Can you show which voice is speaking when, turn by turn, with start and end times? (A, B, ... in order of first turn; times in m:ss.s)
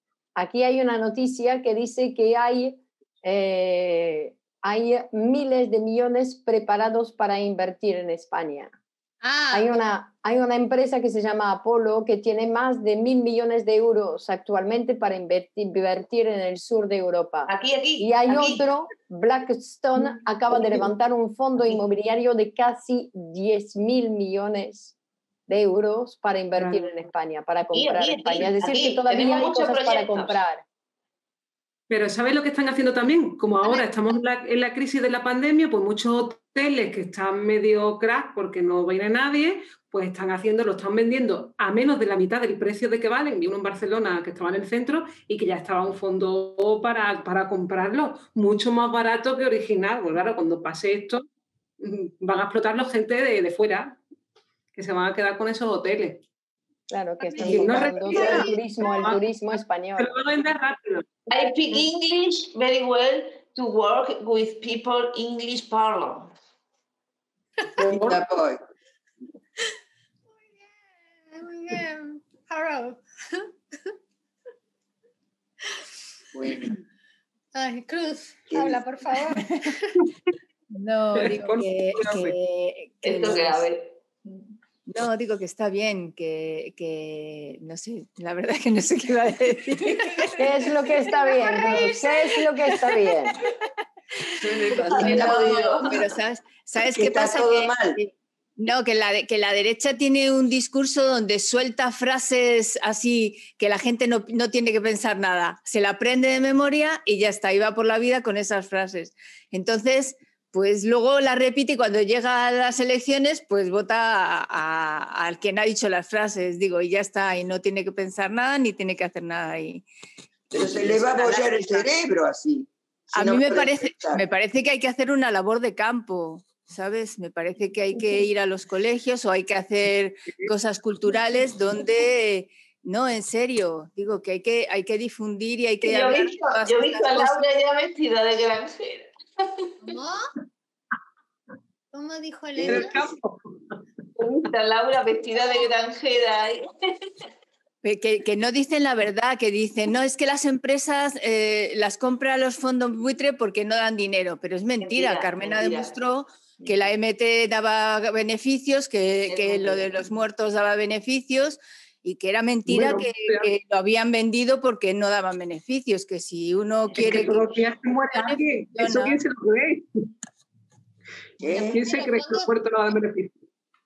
0:00.4-0:08.7 A
0:09.2-0:09.7 B
0:09.5-0:24.9 A
0:17.5-0:18.7 C
0:20.5-0:20.8 C
0:25.5-0:30.6 A
0:26.5-0:26.8 D
0:27.7-0:30.4 C
0:31.9-0:51.2 D
0:33.6-0:33.9 B
0:51.8-0:54.0 D
0:54.7-0:56.2 D
0:56.9-1:00.2 A
0:57.4-0:59.1 B
0:57.4-0:59.2 D
1:00.0-1:01.0 D
1:01.3-1:06.3 C
1:07.8-1:08.2 D
1:07.8-1:08.6 E
1:10.4-1:13.9 B
1:16.3-1:16.8 E
1:17.5-1:19.9 B
1:18.5-1:18.8 E
1:20.7-1:23.6 F
1:21.2-1:22.3 D
1:23.0-1:24.5 C
1:24.9-1:30.7 F
1:30.4-1:33.4 A
1:31.1-1:32.3 B
1:31.4-1:31.9 F
1:32.9-1:33.4 F
1:34.4-1:59.8 F
1:34.5-1:36.0 E
1:34.9-1:36.1 C
1:36.8-1:38.0 E
2:00.5-2:01.9 F
2:00.5-2:04.2 E
2:03.1-2:17.4 F
2:15.8-2:19.6 C
2:19.8-2:20.2 B
2:21.9-2:22.9 B
2:22.6-2:23.1 E
2:22.7-2:23.7 D
2:24.2-2:27.1 C
2:27.8-2:49.2 F
2:34.8-2:36.0 C
2:36.6-2:36.9 C
2:39.2-2:40.1 C
2:42.6-2:43.5 D
2:46.9-2:47.5 C
2:46.9-2:49.8 D
2:51.4-2:51.8 E
2:51.4-2:52.5 B
2:51.5-2:53.3 D